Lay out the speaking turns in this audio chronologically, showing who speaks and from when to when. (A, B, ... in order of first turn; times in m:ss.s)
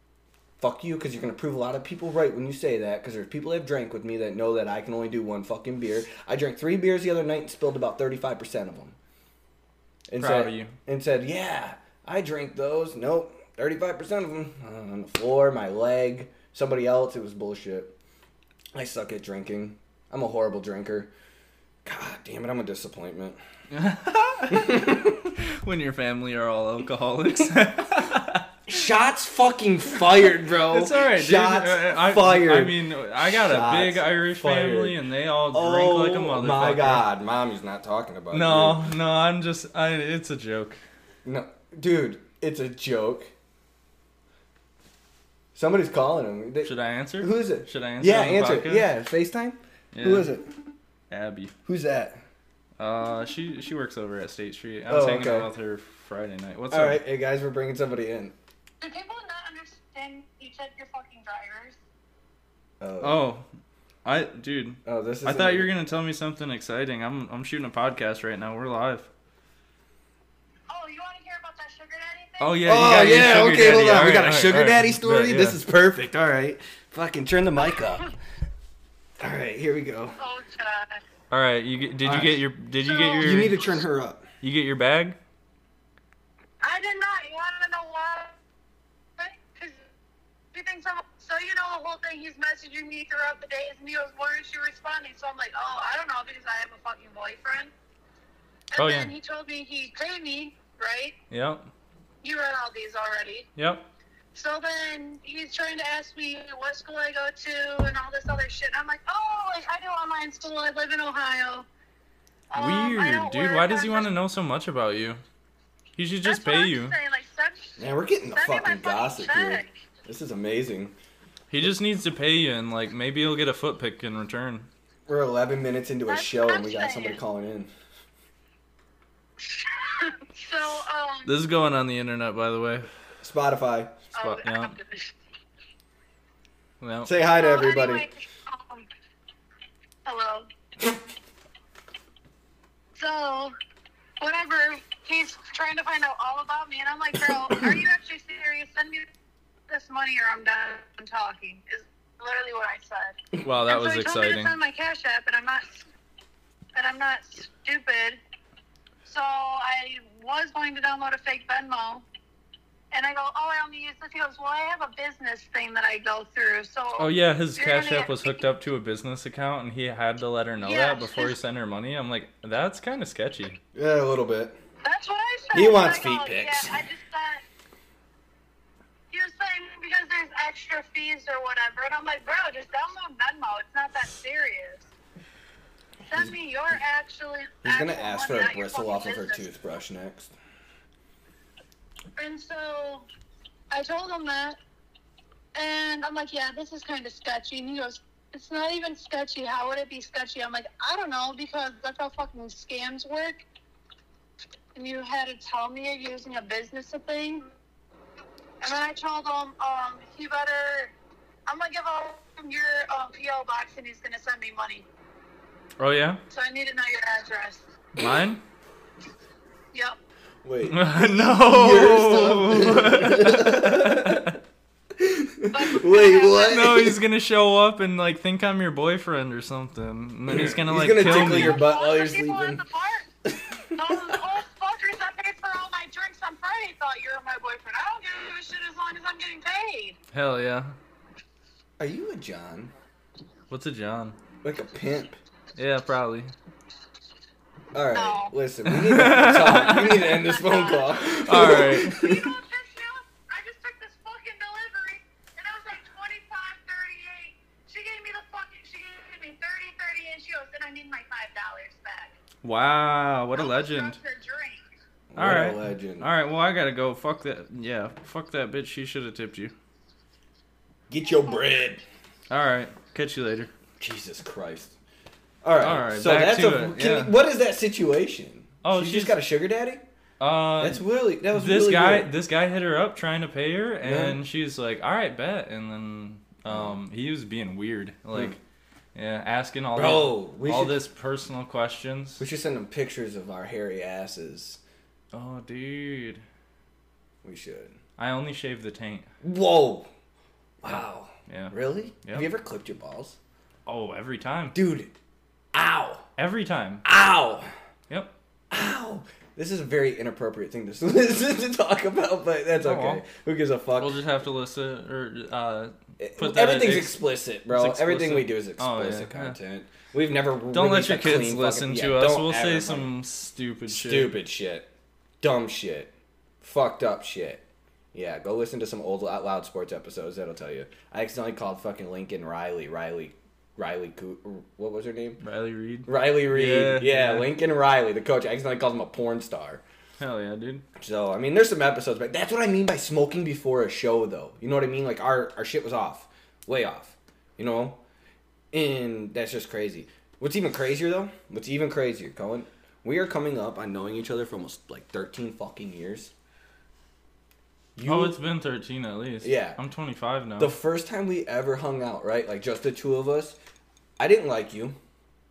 0:00.6-0:09.0 A
0:10.1-0:18.0 A
0:10.2-0:10.7 B
0:18.7-0:21.1 A
0:21.8-0:23.4 A
0:23.7-0:28.4 B
0:24.5-0:25.3 A
0:28.7-0:35.0 A
0:30.7-0:37.0 B
0:35.5-0:38.8 A
0:38.3-0:40.8 B
0:41.2-0:43.3 A
0:45.5-0:50.5 A
0:46.6-0:48.9 B
0:49.9-0:50.3 B
0:51.1-0:51.5 B
0:51.6-0:52.2 A
0:52.8-0:57.0 B
0:54.9-0:55.5 A
0:56.7-0:58.3 A
0:58.8-1:01.8 C
1:02.8-1:03.2 A
1:03.0-1:03.4 B
1:04.0-1:09.1 B
1:04.8-1:05.7 A
1:10.7-1:12.7 C
1:12.4-1:15.6 B
1:12.6-1:18.1 A
1:19.2-1:20.2 A
1:20.2-1:21.0 C
1:21.3-1:23.8 B
1:22.0-1:22.4 A
1:22.8-1:23.4 C
1:23.2-1:24.2 A
1:24.4-1:25.2 B
1:26.6-1:28.4 C
1:29.2-1:29.8 C
1:30.5-1:37.7 C
1:38.7-1:41.2 C
1:38.8-1:39.1 B
1:41.3-1:41.6 B
1:42.2-1:43.5 C
1:43.6-1:43.8 B
1:44.3-1:51.7 C
1:52.5-1:54.1 C
1:52.5-1:55.2 B
1:56.0-1:56.9 B
1:56.2-1:57.8 C
1:57.8-2:00.9 A
1:58.3-1:59.7 C
2:01.5-2:04.7 B
2:05.1-2:07.7 A
2:06.1-2:07.2 C
2:09.4-2:11.3 C
2:11.2-2:12.9 B
2:13.2-2:13.9 A
2:14.1-2:15.1 C
2:14.2-2:14.7 B
2:16.8-2:17.1 B
2:17.0-2:18.0 A
2:17.3-2:18.9 C
2:20.0-2:20.5 C
2:23.0-2:23.5 C
2:24.2-2:29.1 C
2:29.7-2:35.8 C
2:33.4-2:34.6 B
2:36.7-2:38.2 C
2:39.0-2:42.0 C
2:42.9-2:48.1 C
2:47.0-2:53.6 B
2:50.6-2:51.4 C
2:53.7-2:54.6 A
2:54.8-2:57.4 C
2:55.5-2:56.8 A
2:59.1-3:04.9 C
3:06.1-3:09.5 C
3:07.6-3:10.3 A
3:12.2-3:13.0 C
3:13.7-3:14.6 C
3:15.5-3:23.4 C
3:24.7-3:27.5 C
3:28.6-3:30.9 C
3:31.5-3:34.9 C
3:35.8-3:36.2 B
3:36.3-3:37.7 C
3:38.0-3:38.4 B
3:40.4-3:44.3 A
3:40.6-3:44.3 B
3:45.0-3:47.0 A
3:45.5-3:46.8 C
3:46.4-3:51.6 B
3:50.3-3:52.6 A
3:51.0-3:53.1 C
3:53.3-3:54.2 A
3:53.7-4:00.0 C
4:00.1-4:00.8 B
4:01.8-4:02.7 A
4:03.5-4:04.2 B
4:04.4-4:05.2 A
4:05.6-4:06.3 B
4:07.7-4:12.3 A
4:07.9-4:08.3 C
4:08.6-4:09.9 B
4:09.5-4:22.1 C
4:11.2-4:12.0 B
4:22.4-4:24.0 B
4:23.3-4:24.6 C
4:25.1-4:26.1 A
4:25.2-4:29.5 B
4:30.9-4:31.8 A
4:32.3-4:33.5 B
4:33.8-4:34.8 A
4:35.4-4:39.8 A
4:35.6-4:37.1 B
4:38.6-4:39.2 B
4:40.2-4:40.8 B
4:40.6-4:42.1 A
4:41.3-4:48.4 B
4:43.8-4:44.2 A
4:46.5-4:46.7 A
4:48.9-4:52.2 B
4:49.7-4:50.8 A
4:52.2-4:54.6 A
4:55.1-4:56.2 B
4:57.2-4:57.8 A
4:58.0-4:59.1 B
4:59.2-4:59.9 A
5:00.6-5:03.2 A
5:00.6-5:02.3 B
5:03.6-5:04.5 B
5:04.5-5:04.9 A
5:05.5-5:06.0 A
5:06.2-5:06.8 B
5:06.8-5:07.5 A
5:08.5-5:14.0 A
5:12.6-5:13.0 B
5:13.8-5:19.4 B
5:16.0-5:22.9 A
5:20.5-5:24.2 B
5:23.7-5:24.7 A
5:25.2-5:27.4 A
5:27.9-5:35.2 A
5:35.2-5:37.3 B
5:35.9-5:39.6 A
5:40.0-5:40.6 B
5:40.8-5:47.8 A
5:48.5-5:56.1 A
5:57.8-5:58.2 A
5:57.8-6:00.5 B
5:59.2-5:59.6 A
6:00.4-6:03.4 A
6:04.0-6:04.8 A